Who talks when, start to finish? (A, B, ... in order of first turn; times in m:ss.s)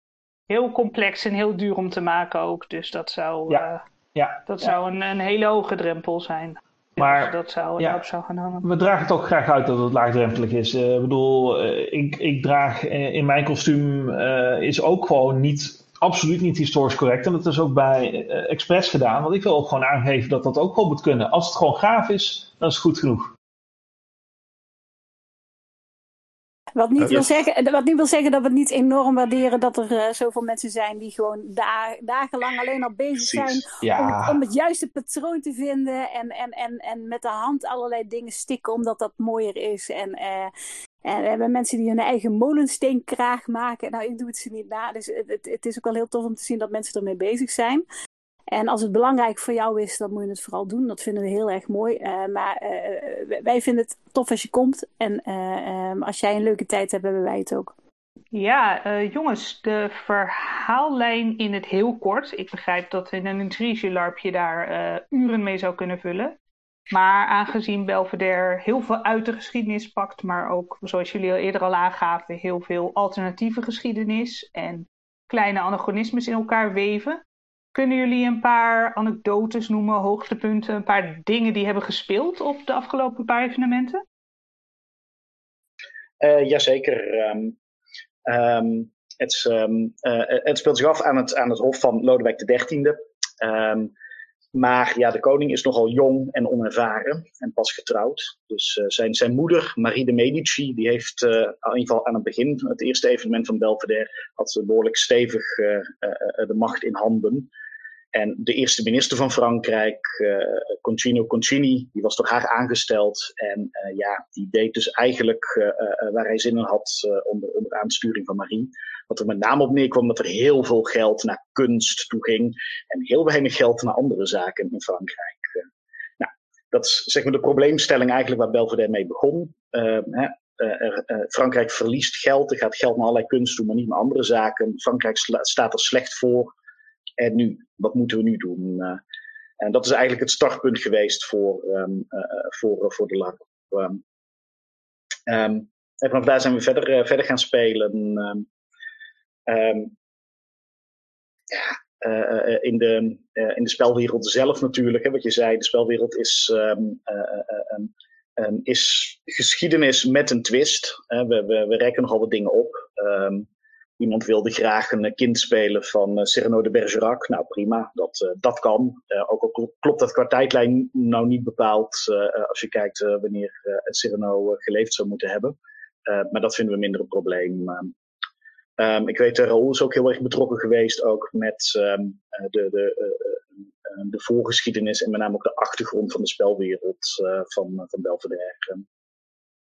0:00.5-0:03.8 A
0:03.5-0:04.7 B
0:04.5-0:08.6 A
0:07.0-0:08.0 B
0:08.6-0:23.3 B
0:26.8-0:40.5 C
0:33.2-0:33.6 D
0:33.8-0:34.4 B
0:41.0-0:47.8 C
0:48.5-0:57.7 C
0:58.3-1:06.3 A
1:06.9-1:17.2 A
1:17.7-1:24.0 A
1:26.2-1:27.5 D
1:28.2-1:33.9 D
1:34.5-1:47.5 D
1:48.1-2:05.6 D
2:06.2-2:16.5 D
2:17.2-2:19.0 D
2:19.6-2:24.0 D
2:25.3-2:28.4 D
2:29.5-2:29.9 D
2:31.5-2:43.5 D
2:44.0-2:55.6 D
2:56.1-2:57.9 D
2:58.8-3:08.8 D